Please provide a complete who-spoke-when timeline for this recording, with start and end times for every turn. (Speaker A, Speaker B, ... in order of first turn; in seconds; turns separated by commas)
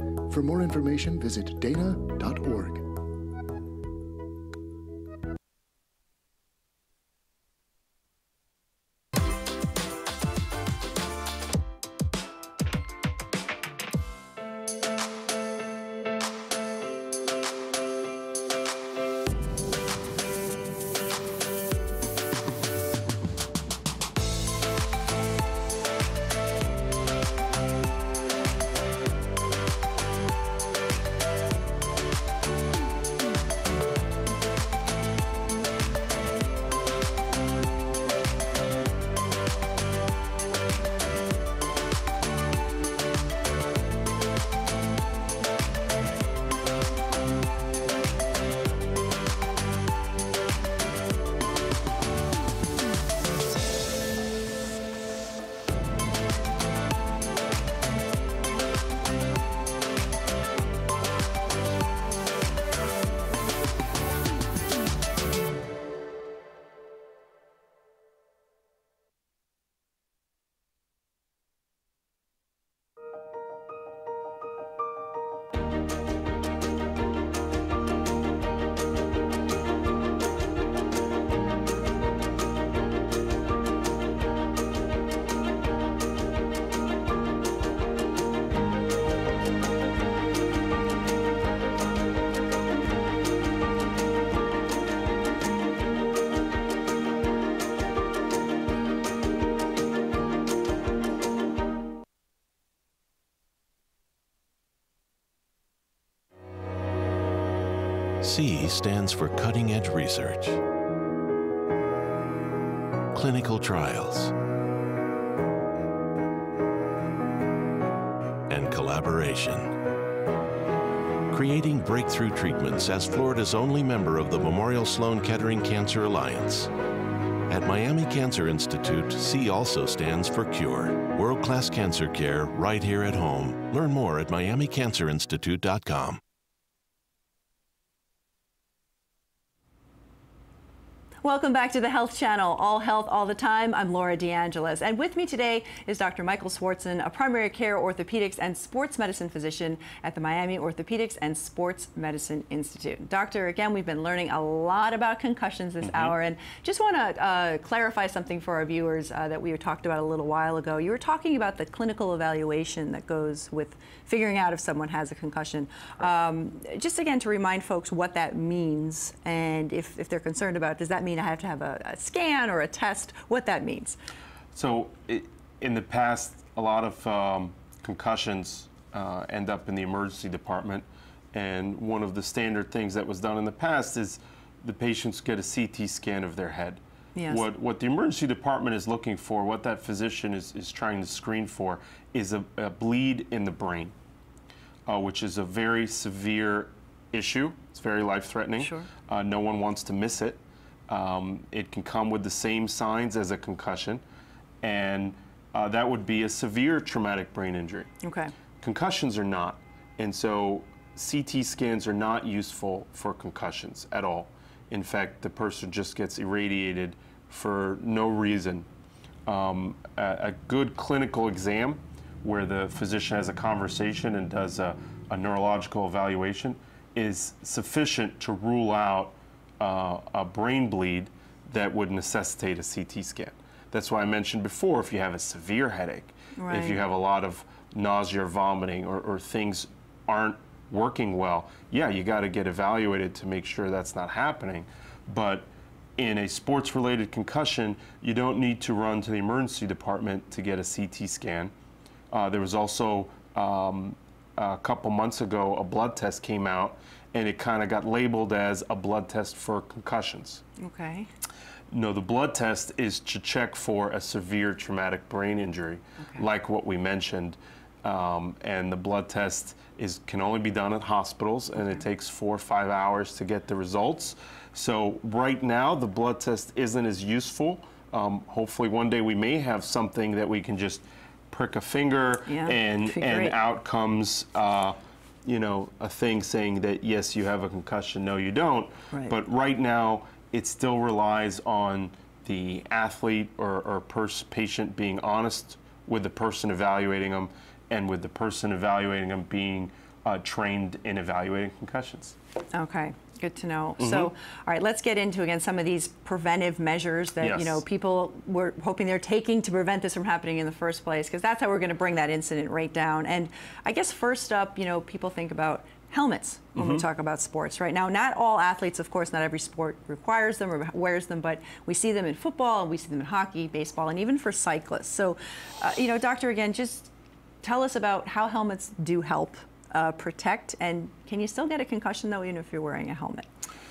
Speaker A: 0.3-2.9, Speaker B: 108.2-110.6, Speaker B: 113.1-114.3, Speaker B: 118.5-119.8, Speaker B: 121.3-126.7, Speaker B: 127.5-136.2, Speaker C: 141.2-174.0, Speaker D: 155.8-156.2, Speaker D: 174.5-193.9, Speaker C: 187.2-187.4, Speaker D: 194.9-204.0, Speaker C: 198.6-198.9, Speaker D: 204.6-207.9, Speaker C: 208.0-208.3, Speaker D: 208.6-218.7, Speaker D: 219.3-251.5, Speaker C: 236.4-236.8, Speaker D: 252.1-260.4, Speaker C: 260.6-261.1, Speaker D: 261.7-302.2, Speaker C: 282.3-283.4, Speaker C: 302.5-326.9, Speaker D: 303.8-304.1, Speaker D: 307.2-307.6, Speaker D: 316.6-316.9, Speaker C: 327.4-333.3